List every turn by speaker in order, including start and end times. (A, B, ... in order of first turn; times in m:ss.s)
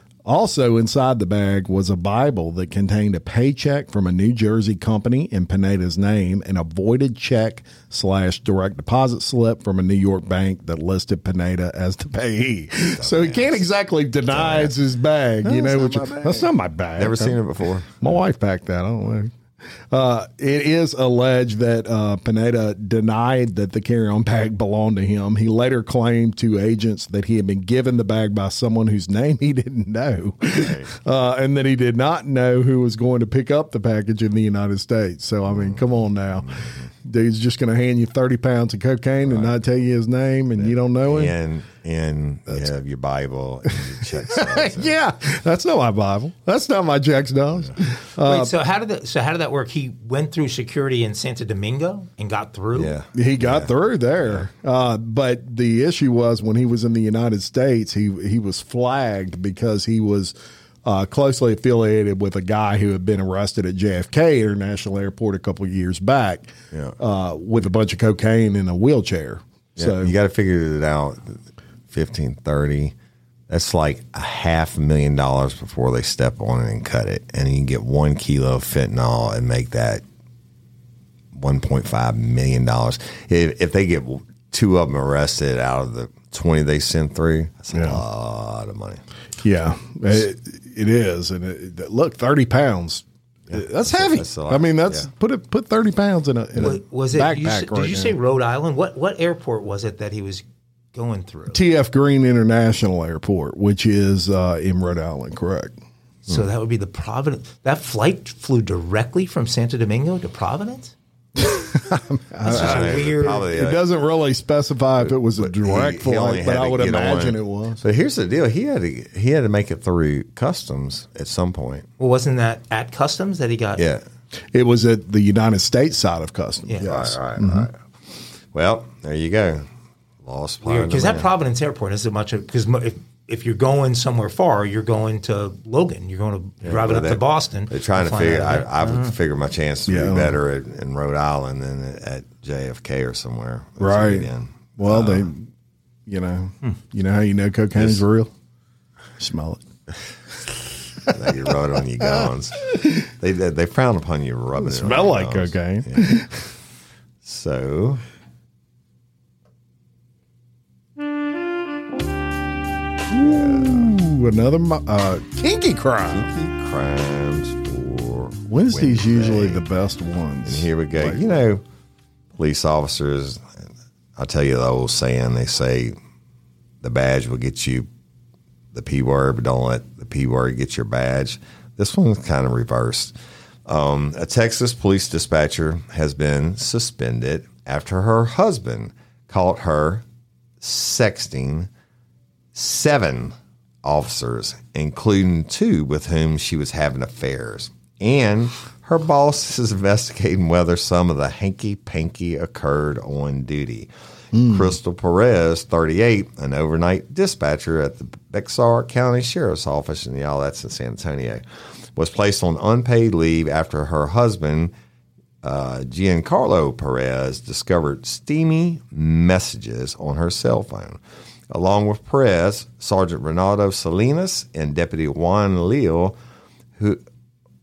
0:00.2-0:17.4 A
0:12.9-0:13.6 B
0:14.3-0:14.7 B
0:15.4-0:18.2 B
0:18.0-0:19.3 A
0:19.9-0:41.3 A
0:30.4-0:30.9 B
0:35.5-0:36.8 B
0:39.2-0:39.5 B
0:40.6-0:44.9 B
0:43.7-0:48.5 A
0:48.2-0:52.9 C
0:52.7-0:54.4 B
0:53.1-1:10.1 A
1:09.8-1:12.9 B
1:13.5-1:20.0 B
1:21.3-1:29.0 B
1:27.7-1:28.0 A
1:29.4-1:38.2 A
1:33.5-1:35.1 B
1:36.6-1:41.6 C
1:41.5-1:45.7 A
1:46.2-1:50.9 C
1:51.4-1:57.8 A
1:52.4-1:53.4 C
1:52.5-1:53.8 B
1:55.0-2:01.9 B
2:02.0-2:03.8 C
2:03.8-2:04.0 B
2:04.5-2:07.7 A
2:06.8-2:07.8 B
2:08.5-2:09.7 B
2:10.2-2:11.3 B
2:10.6-2:19.1 C
2:16.6-2:25.3 B
2:19.9-2:20.4 A
2:23.8-2:25.5 A
2:26.0-2:28.3 A
2:29.2-2:29.6 A
2:31.0-2:36.3 B
2:31.1-2:31.3 A
2:32.0-2:33.0 A
2:34.6-2:36.4 A
2:37.2-2:38.0 B
2:43.1-2:46.3 A
2:43.1-2:43.9 B
2:46.1-2:49.6 B
2:48.5-2:51.2 A
2:50.4-2:51.6 B
2:52.4-2:55.9 B
2:56.8-2:57.9 B
2:58.7-3:03.1 B
3:03.6-3:10.0 B
3:10.6-3:11.7 B
3:12.5-3:31.4 B
3:24.3-3:24.8 A
3:31.9-3:34.7 B
3:35.4-3:46.2 B